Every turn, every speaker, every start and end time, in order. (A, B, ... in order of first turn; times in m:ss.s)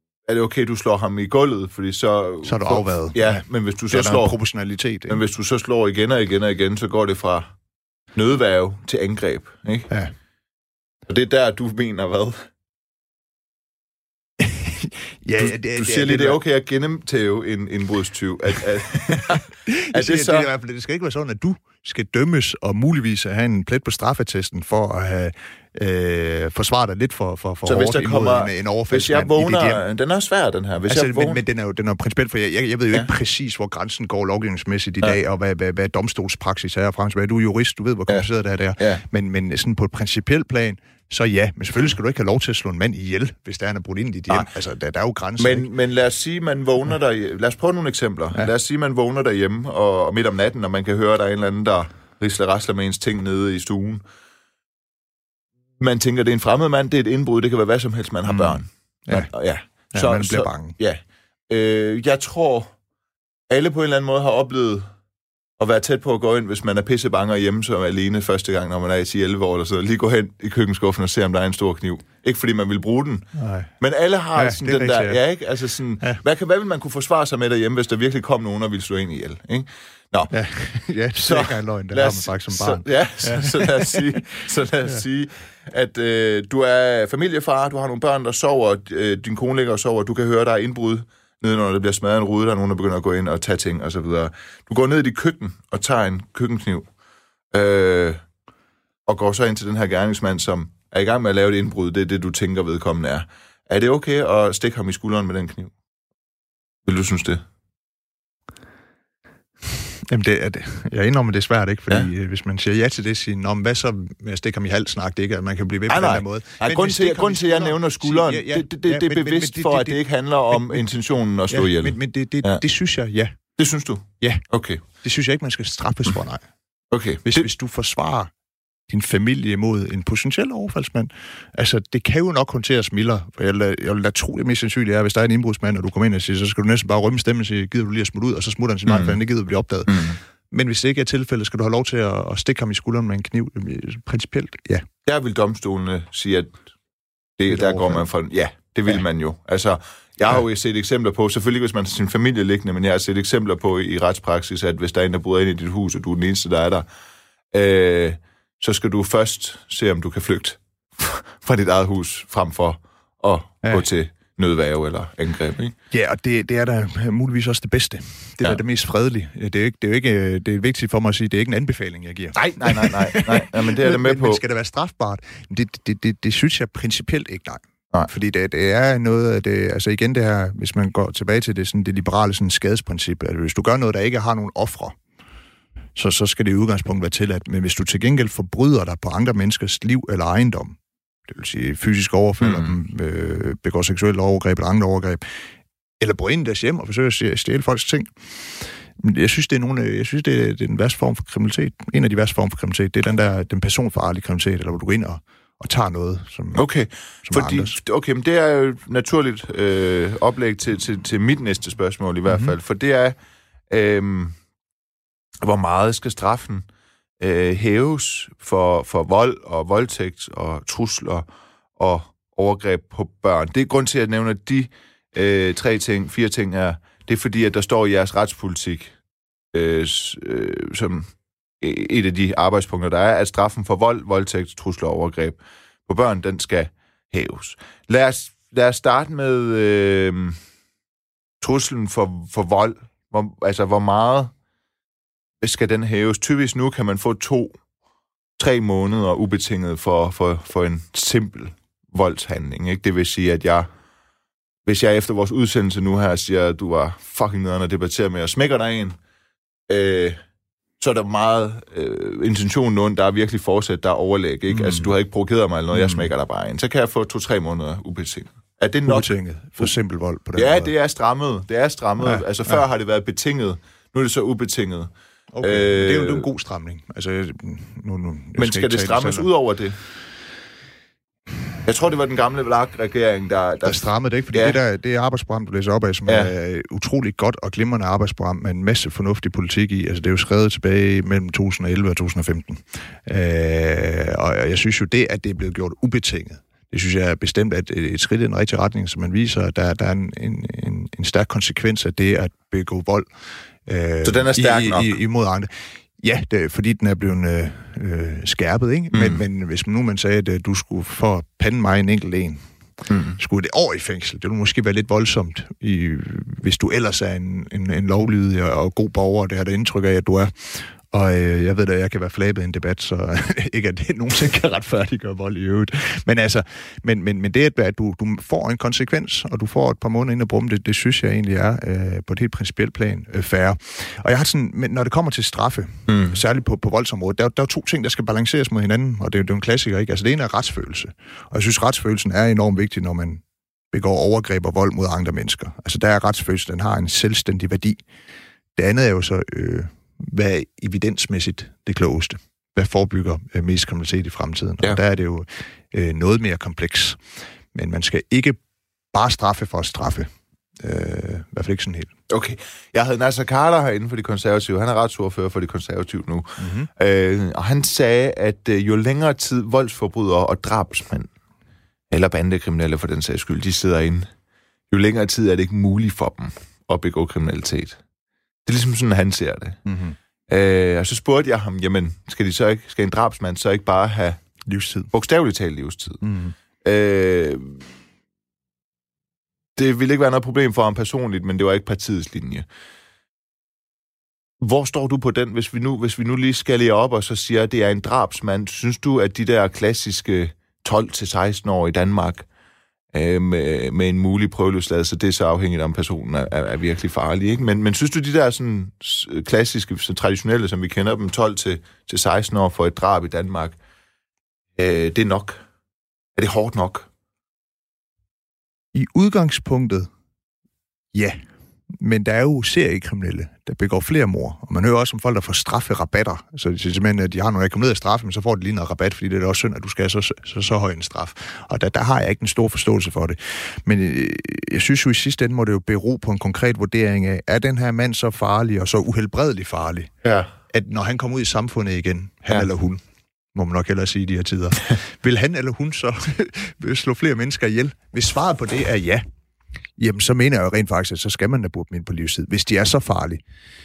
0:00.3-0:04.3 A
0:02.4-0:05.2 B
0:05.1-0:07.5 A
0:08.1-0:09.9 A
0:11.1-0:12.4 A
0:14.4-0:16.4 B
0:15.4-0:20.5 A
0:19.0-0:29.8 B
0:27.6-0:31.4 A
0:30.9-0:45.7 B
0:38.8-0:39.0 A
0:45.4-0:54.0 A
0:55.8-1:01.0 A
0:58.3-0:59.3 B
0:59.9-1:00.8 B
1:01.5-1:02.7 A
1:03.5-1:04.9 A
1:05.6-1:13.3 A
1:13.3-1:13.7 B
1:13.8-1:20.3 A
1:14.4-1:15.2 B
1:20.3-1:24.0 B
1:21.2-1:36.8 A
1:37.5-1:38.2 A
1:39.1-1:45.7 A
1:46.8-1:47.4 A
1:50.1-2:00.9 B
1:55.9-2:02.6 A
2:01.5-2:03.4 B
2:03.6-2:04.8 A
2:04.2-2:06.5 B
2:06.9-2:07.5 A
2:07.2-2:08.3 B
2:08.9-2:24.8 B
2:18.9-2:19.2 A
2:19.9-2:20.2 A
2:25.0-2:26.6 A
2:27.4-2:36.8 A
2:27.5-2:28.0 B
2:37.5-2:45.7 A
2:45.9-3:05.0 B
2:52.3-2:54.4 A
3:05.9-3:15.4 B
3:12.4-3:12.7 A
3:16.0-3:26.6 B
3:26.5-3:33.2 A
3:27.2-3:27.8 B
3:32.3-3:32.5 B
3:33.7-3:34.3 A
3:35.4-3:36.6 A
3:37.2-3:48.9 A
3:49.5-3:51.1 A
3:51.6-4:00.4 A
4:01.4-4:04.3 A
4:05.4-4:07.6 A
4:08.4-4:13.7 A
4:14.6-4:19.0 A
4:19.7-4:20.2 A
4:20.8-4:29.7 A
4:24.5-4:24.9 B
4:25.7-4:26.1 B
4:28.8-4:30.7 B
4:30.4-4:34.9 A
4:32.0-4:32.6 B
4:35.3-4:39.3 B
4:35.4-4:36.3 A
4:38.4-4:39.8 A
4:41.6-4:44.6 A
4:43.6-5:03.1 B
4:46.1-4:46.3 A
5:03.6-5:12.4 B
5:04.0-5:04.9 A
5:08.9-5:09.2 A
5:12.9-5:13.2 A
5:13.2-5:47.8 B
5:35.9-5:36.2 A
5:48.6-5:57.0 B
5:57.5-5:58.4 B
5:58.9-6:00.1 B
6:00.6-6:01.9 B
6:02.1-6:11.1 A
6:06.4-6:06.7 B
6:11.9-6:14.1 A
6:14.7-6:17.8 A
6:18.4-6:19.6 A
6:19.6-6:20.0 B
6:20.3-6:24.2 A
6:24.4-6:24.9 B
6:24.9-6:26.0 A
6:26.0-6:26.4 B
6:26.6-6:27.6 A
6:29.6-6:32.4 A
6:34.4-6:42.2 A
6:42.9-6:53.6 A
6:54.6-6:55.4 A
6:56.2-6:56.9 A
6:58.7-6:59.9 B
7:00.9-7:01.2 B
7:01.7-7:19.9 B
7:20.0-7:20.3 A
7:20.5-7:22.8 B
7:23.3-7:29.0 B
7:29.8-7:33.2 B